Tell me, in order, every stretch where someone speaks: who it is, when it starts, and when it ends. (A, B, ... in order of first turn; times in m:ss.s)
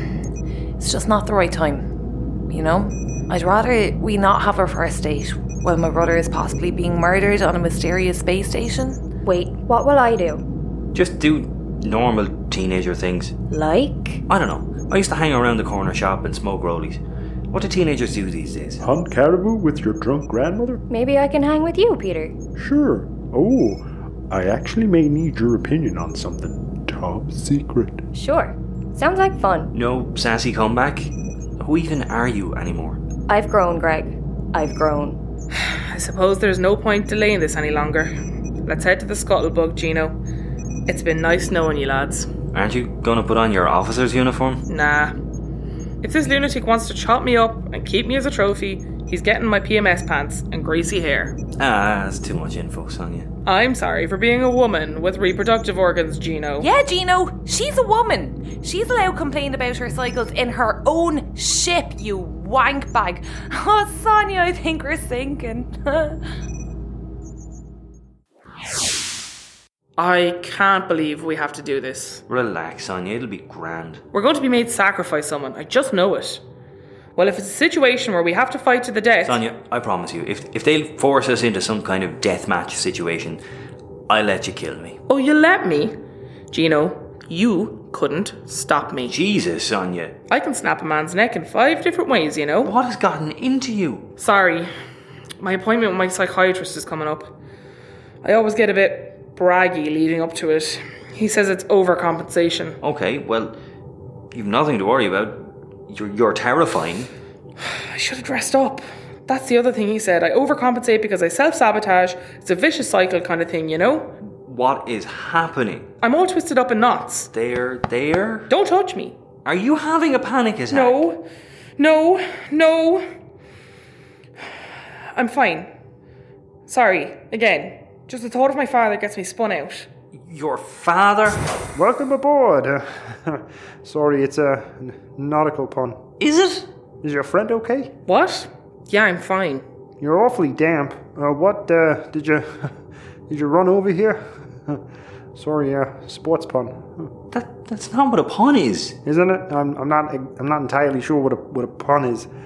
0:00.8-0:01.8 A
0:02.5-0:09.0 A
0:09.2-0:10.4 B
0:10.9-0:13.3 C
0:13.5-0:14.2 B
0:14.3-0:17.0 C
0:17.5-0:18.8 C
0:18.8-0:20.8 D
0:20.9-0:22.3 B
0:22.6-0:28.0 D
0:28.1-0:29.7 B
0:29.7-0:33.0 C
0:33.3-0:35.2 B
0:35.8-0:38.1 E
0:38.6-0:40.2 E
0:40.9-0:42.3 E
0:42.5-0:44.6 C
0:44.7-0:45.1 E
0:46.0-0:51.4 E
0:51.6-0:53.3 C
0:53.4-0:56.7 E
0:56.6-1:06.2 A
1:10.0-1:12.2 E
1:12.3-1:14.0 C
1:14.1-1:16.4 E
1:17.2-1:19.4 E
1:19.2-1:23.4 C
1:24.1-1:25.0 C
1:25.1-1:26.0 E
1:26.5-1:29.2 E
1:29.0-1:30.2 C
1:30.3-1:32.7 E
1:32.6-1:34.1 C
1:34.2-1:34.7 E
1:35.4-1:37.3 E
1:38.2-1:42.8 E
1:42.8-1:43.5 C
1:44.3-1:47.1 C
1:47.6-1:54.1 E
1:54.4-1:55.9 C
1:56.0-1:57.3 E
1:57.3-1:58.5 C
1:58.5-1:59.2 E
1:59.4-2:01.0 C
2:00.7-2:01.2 E
2:01.8-2:03.0 E
2:05.1-2:05.7 E
2:06.7-2:09.9 E
2:10.1-2:11.4 C
2:11.7-2:16.0 F
2:16.2-2:16.6 C
2:17.0-2:17.9 F
2:18.0-2:19.6 E
2:20.0-2:22.7 F
2:23.3-2:24.8 F
2:25.4-2:27.1 F
2:27.3-2:29.0 C
2:29.0-2:32.3 F